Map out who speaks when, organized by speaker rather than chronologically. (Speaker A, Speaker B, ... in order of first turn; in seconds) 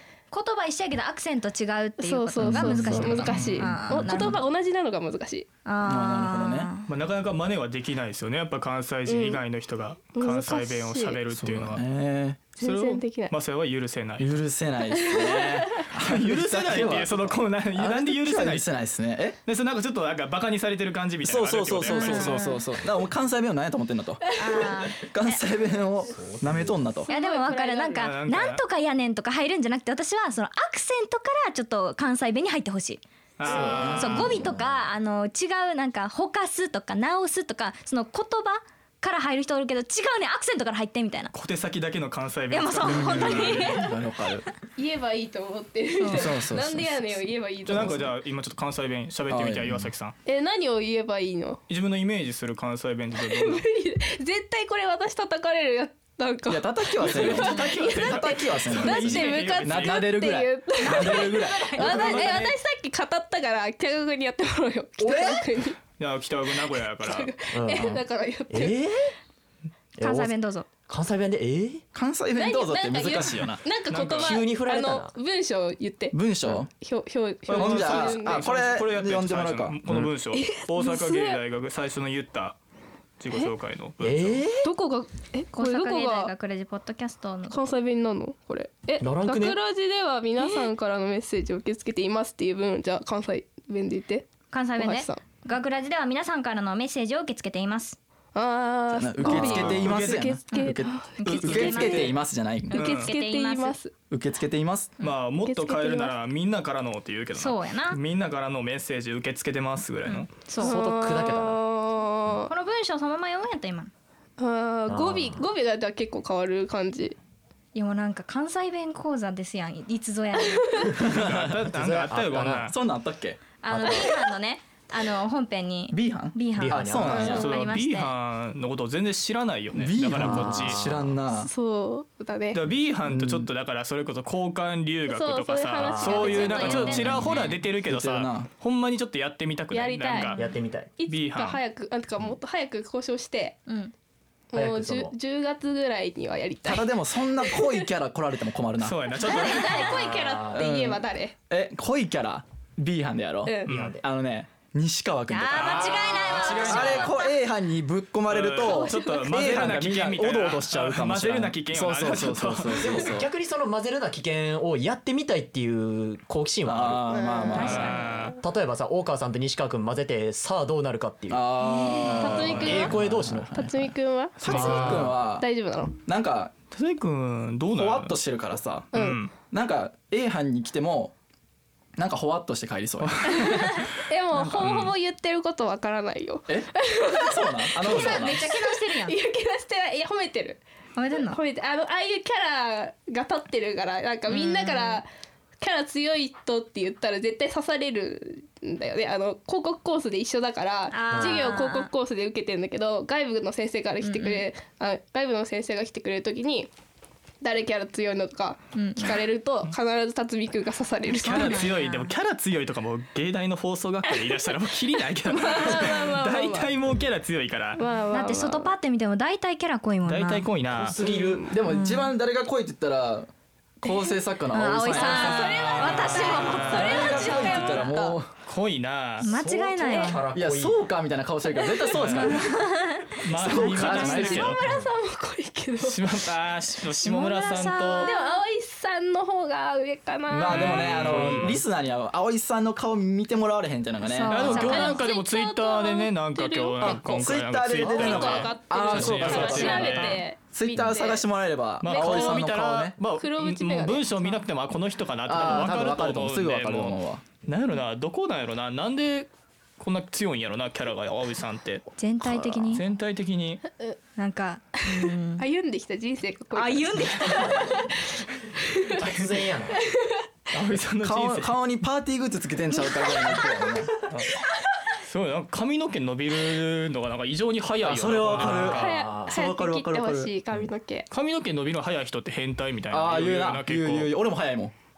Speaker A: 0.3-4.4, 5.7-6.9, 21.9-22.7, 24.3-25.4, 27.1-41.3, 42.5-43.9, 46.0-46.3, 60.8-62.5, 70.0-70.7, 85.5-87.6, 90.4-90.7, 94.5-98.0, 100.5-102.2, 102.7-103.8, 107.3-108.0, 110.0-110.7, 112.5-113.9, 117.7-120.9, 123.6-128.1, 136.0-137.6, 143.7-143.9, 155.3-157.3, 167.5-168.2, 171.6-172.4, 187.8-189.2, 190.9-191.4, 194.3-195.0, 200.9-201.9, 204.0-204.5, 208.7-209.2, 211.1-212.1, 218.1-220.4, 221.7-222.1, 224.5-227.9, 229.2-230.2, 231.9-234.6, 237.0-238.3, 244.0-245.0, 262.0-262.8, 264.1-265.4, 266.5-267.9, 272.9-273.7
Speaker B: 2.0-5.5, 9.1-9.4, 10.1-11.2, 12.5-13.3, 14.9-15.9, 24.3-24.9, 27.0-28.1, 44.8-48.1, 50.2-51.6, 53.2-65.8, 66.4-68.8, 72.3-76.2, 76.7-78.8, 80.3-81.4, 84.6-86.3, 87.5-95.2, 98.3-102.1, 102.7-104.0, 105.3-106.1, 110.6-112.5, 114.4-117.2, 127.0-127.4, 131.3-132.6, 135.0-136.8, 139.7-143.6, 144.5-147.9, 149.1-151.3, 153.4-153.8, 158.6-159.3, 167.1-168.3, 172.2-176.0, 178.9-179.2, 183.3-190.6, 191.1-195.1, 195.6-206.7, 207.4-211.7, 215.2-216.7, 217.8-218.7, 221.0-221.6, 223.8-224.2, 224.8-228.2, 234.2-236.1, 237.9-241.4, 244.4-247.1, 247.7-252.4, 253.0-254.4, 265.0-268.0, 268.7-269.0, 269.7-270.2, 274.3-274.6, 278.7-281.1
Speaker C: 2.4-4.4, 5.8-6.7, 11.3-12.5, 14.2-19.4, 21.2-27.1, 42.8-44.5, 46.1-47.0, 49.3-49.9, 56.5-62.0, 71.9-73.6, 76.1-76.7, 77.5-80.1, 98.9-102.8, 104.1-105.0, 121.0-121.6, 122.7-123.4, 125.9-127.5, 129.7-131.5, 133.1-133.5, 136.8-138.5, 146.6-149.5, 150.5-163.3, 166.7-168.0, 171.3-175.5, 176.0-176.5, 177.7-178.9, 179.5-181.1, 182.0-184.7, 186.5-188.5, 221.5-223.3, 223.8-228.3, 230.3-232.5, 233.3-234.4, 240.3-244.4, 246.8-253.0, 255.2-257.2, 271.0-274.1, 277.8-280.3, 282.9-284.7
Speaker D: 3.2-3.7, 6.8-11.8, 12.6-14.3, 16.0-18.7, 19.4-22.4, 28.0-28.6, 33.4-34.4, 41.3-43.8, 47.6-50.2, 51.7-53.6, 57.0-60.0, 61.8-62.5, 66.0-67.3, 73.8-74.5, 77.5-82.6, 83.2-84.4, 99.3-100.3, 101.2-101.8, 102.7-103.1, 105.0-110.3, 121.0-122.8, 127.2-130.8, 132.5-140.4, 141.1-141.6, 148.8-150.0, 153.7-154.0, 155.5-157.2, 158.3-163.1, 167.5-168.3, 176.7-178.2, 178.9-179.3, 184.6-184.9, 211.2-217.8, 220.0-221.0, 225.1-227.4, 228.4-229.3, 231.9-232.4, 233.2-234.6, 235.8-238.1, 240.5-241.6, 244.3-250.2, 251.8-263.6, 270.5-271.5, 275.0-279.0, 281.1-284.1
Speaker E: 26.1-26.8, 33.5-34.9, 65.0-65.4, 67.5-69.1, 70.0-71.8, 74.2-75.1, 84.0-84.7, 89.0-89.6, 110.6-111.6, 114.9-115.4, 121.7-122.7, 123.7-124.1, 126.5-127.4, 130.1-131.2, 135.8-137.3, 140.3-140.9, 144.5-145.1, 149.9-150.7, 153.7-154.0, 162.8-167.9, 168.4-171.5, 172.6-173.7, 174.4-175.2, 201.1-201.5, 220.7-221.5, 229.2-230.8, 268.9-269.8, 278.4-279.3